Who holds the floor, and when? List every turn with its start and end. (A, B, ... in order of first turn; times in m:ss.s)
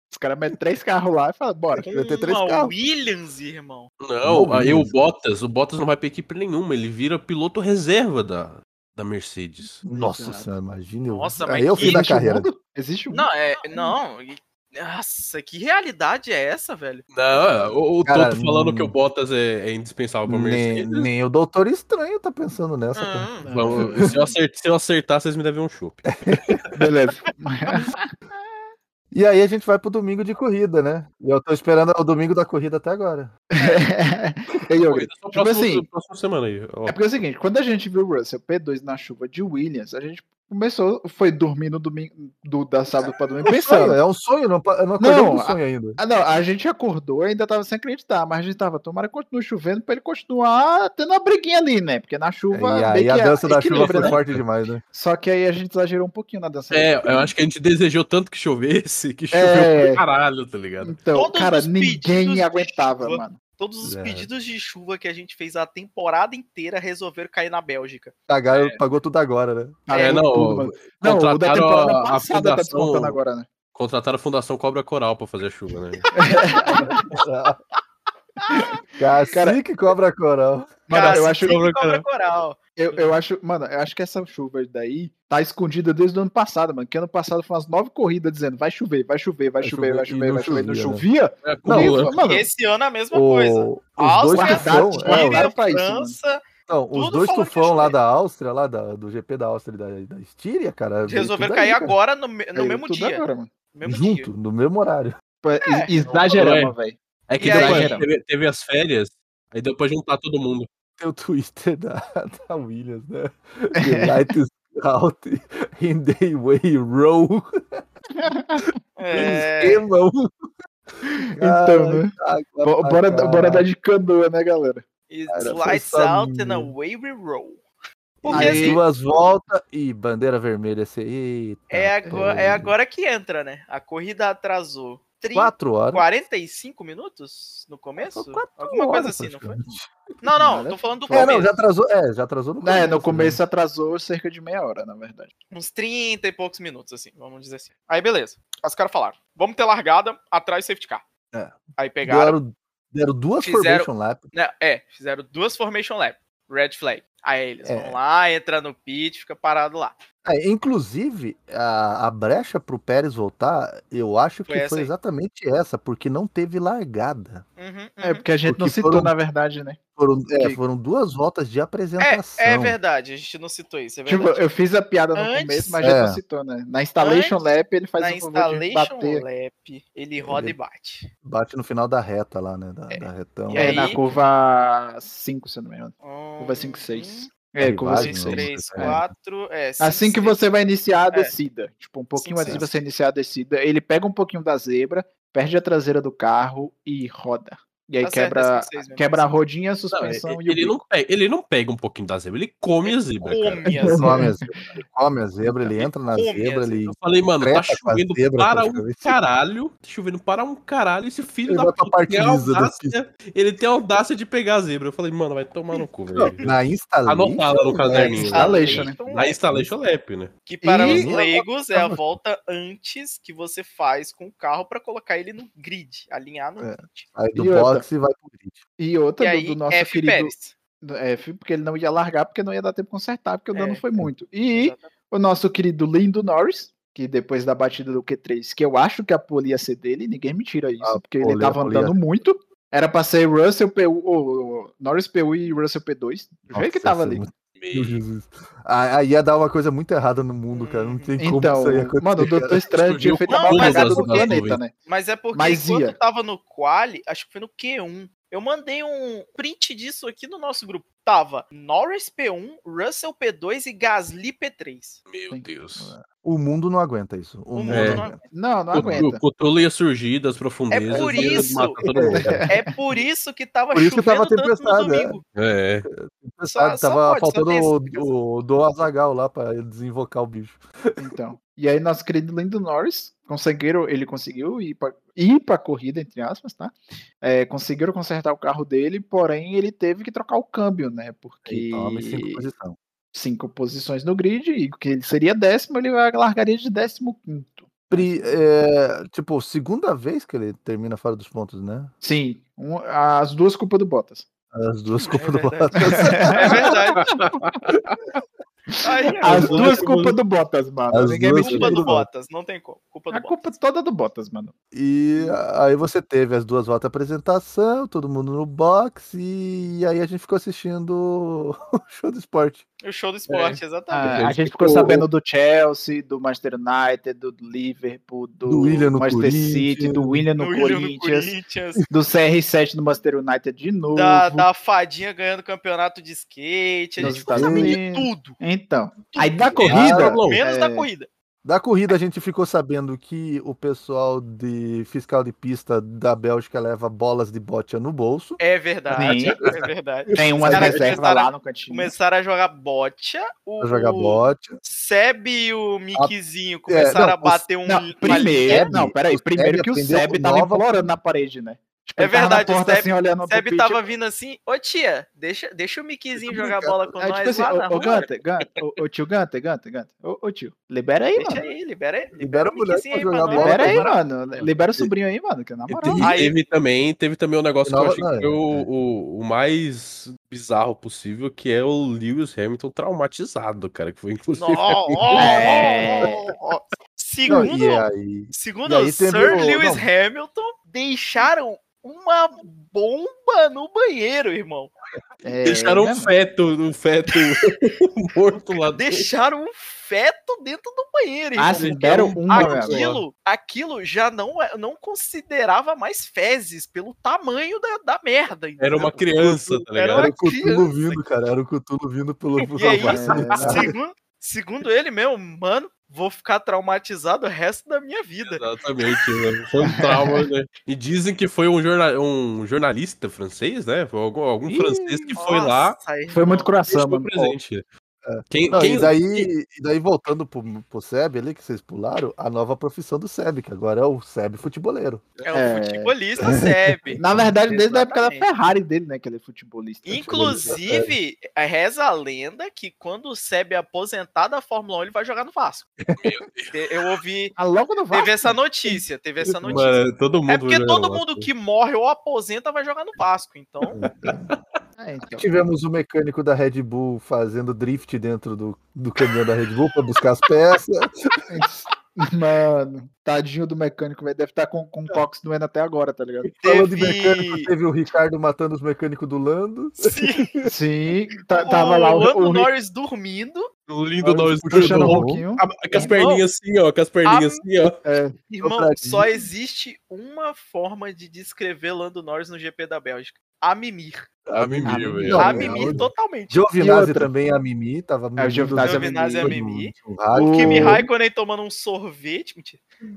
0:00.1-0:01.8 A
0:01.8-0:02.7 B
0:01.8-0:03.9 C
0:04.0-0:09.8 D
0:04.2-0:04.9 B
0:09.8-0:12.5 B
0:09.9-0:10.5 A
0:11.1-0:12.0 C
0:11.8-0:13.9 A
0:13.1-0:17.1 C
0:17.1-0:21.1 D
0:18.0-0:18.9 B
0:20.3-0:24.1 B
0:23.0-0:23.5 C
0:23.4-0:24.1 A
0:23.5-0:26.6 D
0:26.2-0:26.6 B
0:26.8-0:28.0 A
0:29.1-0:33.4 B
0:33.6-0:35.9 A
0:34.8-0:37.0 D
0:36.9-0:44.0 A
0:43.5-0:46.0 B
0:45.0-0:54.2 A
0:52.5-0:54.8 B
0:53.7-0:54.4 D
0:54.9-0:57.3 A
0:56.7-1:01.0 D
0:59.3-1:00.0 A
1:00.8-1:03.4 A
1:01.1-1:08.6 C
1:03.8-1:04.3 B
1:08.3-1:09.8 B
1:09.9-1:13.5 A
1:09.9-1:13.2 D
1:13.8-1:16.1 D
1:16.0-1:16.9 C
1:16.1-1:17.1 A
1:16.8-1:17.6 B
1:18.4-1:18.7 C
1:18.5-1:18.8 A
1:19.0-1:20.9 B
1:19.3-1:19.6 A
1:20.9-1:21.6 A
1:20.9-1:23.1 C
1:21.0-1:22.0 D
1:22.8-1:32.5 A
1:29.6-1:31.0 B
1:31.4-1:32.2 D
1:31.6-1:32.0 B
1:32.2-1:36.4 C
1:33.1-1:35.5 B
1:34.3-1:36.2 A
1:36.7-1:42.0 B
1:36.9-1:38.0 C
1:41.0-1:44.3 C
1:42.6-1:43.5 A
1:43.8-1:45.2 B
1:45.4-1:47.0 A
1:45.6-1:46.3 C
1:46.3-1:46.7 D
1:47.3-1:50.7 D
1:47.4-1:48.0 C
1:47.5-1:48.1 A
1:51.0-1:57.8 B
1:53.8-1:54.3 A
1:58.2-1:58.7 A
1:59.0-1:59.8 C
1:59.1-2:00.3 B
2:01.0-2:04.8 A
2:01.4-2:03.7 B
2:05.1-2:07.6 C
2:05.3-2:06.7 B
2:08.2-2:08.8 C
2:08.2-2:12.7 B
2:08.3-2:08.8 A
2:11.7-2:19.6 C
2:15.3-2:16.0 B
2:18.0-2:19.9 B
2:20.2-2:21.5 C
2:20.3-2:21.4 A
2:21.1-2:23.4 B
2:22.6-2:25.3 A
2:25.5-2:31.0 C
2:31.3-2:34.2 B
2:31.8-2:32.4 C
2:33.4-2:40.0 C
2:37.6-2:38.0 B
2:40.2-2:47.4 B
2:44.5-2:44.9 C
2:47.6-2:48.2 C
2:48.0-2:49.8 A
2:48.5-2:49.1 B
2:50.0-2:52.8 B
2:52.0-2:54.4 C
2:54.1-2:59.2 A
2:55.2-2:55.8 C
2:55.8-2:56.2 B
2:57.0-2:57.4 C
2:58.0-3:01.1 C
3:00.2-3:00.6 B
3:01.2-3:04.2 B
3:02.9-3:04.0 C
3:03.6-3:08.5 A
3:06.0-3:07.3 C
3:07.6-3:09.1 B
3:07.9-3:10.4 C
3:09.8-3:20.8 A
3:12.2-3:12.7 C
3:12.4-3:12.7 B
3:18.0-3:19.3 C
3:19.9-3:23.9 D
3:22.8-3:24.1 C
3:23.7-3:24.5 A
3:24.0-3:29.2 B
3:25.8-3:26.9 C
3:26.9-3:40.3 D
3:31.5-3:33.0 B
3:36.2-3:38.3 B
3:37.9-3:39.0 A
3:38.0-3:39.4 C
3:40.5-3:47.1 C
3:40.6-3:41.4 A
3:40.8-3:42.0 B
3:46.6-3:48.6 B
3:47.4-3:47.9 A
3:48.8-4:07.2 A
3:49.2-3:50.6 C
3:53.5-3:53.8 C
3:54.5-3:54.9 C
4:00.8-4:02.0 B
4:06.5-4:12.7 B
4:07.6-4:08.0 D
4:10.5-4:11.2 C
4:11.2-4:14.7 A
4:12.7-4:14.6 D
4:13.3-4:25.0 C
4:15.3-4:16.0 A
4:25.1-4:25.9 D
4:25.8-4:28.2 B
4:27.5-4:28.2 C
4:27.7-4:28.0 D
4:28.3-4:29.2 A
4:28.7-4:32.4 D
4:30.7-4:31.8 C
4:30.9-4:32.4 B
4:32.0-4:32.6 A
4:32.5-4:35.2 C
4:33.7-4:35.2 B
4:35.4-4:35.9 D
4:35.9-4:41.1 B
4:36.5-4:38.1 C
4:41.0-4:52.4 A
4:51.5-4:52.8 B
4:53.1-4:58.1 A
4:57.9-5:01.9 B
5:02.0-5:04.3 A
5:04.5-5:06.7 B
5:05.0-5:07.1 C
5:05.8-5:07.3 A
5:07.1-5:07.6 D
5:08.8-5:09.8 C
5:09.2-5:11.8 A
5:09.2-5:10.2 D
5:10.9-5:12.1 B
5:11.4-5:13.5 C
5:13.1-5:14.5 A
5:14.7-5:22.7 B
5:22.8-5:24.2 C
5:23.3-5:23.6 D
5:23.9-5:31.4 A
5:24.0-5:25.0 B
5:28.5-5:30.3 B
5:30.4-5:31.8 C
5:31.9-5:34.5 A
5:33.9-5:38.4 C
5:37.0-5:40.9 A
5:37.0-5:37.8 B
5:39.1-5:39.7 C
5:39.6-5:40.4 D
5:39.6-5:40.2 B
5:40.2-5:41.1 C
5:41.4-5:48.4 B
5:48.4-5:58.7 C
5:48.9-5:49.4 A
5:50.1-5:51.0 B
5:50.1-5:51.9 A
5:53.6-5:54.6 B
5:56.7-5:57.4 B
5:57.7-6:03.8 A
5:58.1-6:00.7 B
6:02.0-6:08.1 C
6:06.2-6:06.8 B
6:07.0-6:11.4 A
6:11.2-6:14.0 C
6:12.2-6:13.9 B
6:13.3-6:16.1 A
6:15.7-6:25.8 D
6:15.8-6:16.1 B
6:16.0-6:16.4 C
6:17.6-6:18.7 B
6:24.4-6:34.7 C
6:25.1-6:26.2 A
6:27.3-6:29.9 B
6:35.2-6:36.1 A
6:35.4-6:39.1 D
6:38.8-6:51.0 C
6:41.4-6:42.8 A
6:41.5-6:43.0 D
6:48.6-6:50.1 D
6:50.0-6:53.7 B
6:52.6-6:58.4 C
6:52.9-6:53.7 A
6:58.3-7:05.8 D
6:59.7-7:00.2 A
7:04.5-7:05.1 B
7:05.2-7:06.5 C
7:06.1-7:07.4 A
7:06.7-7:07.6 D
7:08.0-7:15.0 B
7:08.3-7:09.3 D
7:15.2-7:18.3 C
7:15.3-7:15.9 A
7:16.2-7:17.3 B
7:17.0-7:20.5 A
7:19.8-7:25.7 C
7:20.0-7:20.9 B
7:26.0-7:26.7 D
7:26.5-7:27.4 C
7:27.4-7:28.4 A
7:27.9-7:33.8 C
7:29.5-7:31.3 D
7:33.7-7:34.3 B
7:34.1-7:34.4 D
7:34.8-7:35.3 A
7:35.1-7:41.1 B
7:41.3-7:46.3 A
7:46.4-7:47.5 C
7:46.4-7:50.5 B
7:49.8-7:50.3 C
7:50.4-7:52.5 A
7:51.3-7:53.5 C
7:53.7-7:57.8 D
7:54.0-7:55.2 B
7:54.5-7:55.9 A
7:55.8-7:56.2 C
7:57.0-7:57.4 C
7:57.8-7:58.2 A
7:58.3-8:04.1 C
7:58.4-7:59.1 B
8:04.3-8:10.9 B
8:04.4-8:05.4 D
8:04.7-8:05.8 A
8:05.2-8:06.4 C
8:06.6-8:07.1 A
8:08.2-8:09.3 A
8:08.6-8:12.6 C
8:10.2-8:10.9 A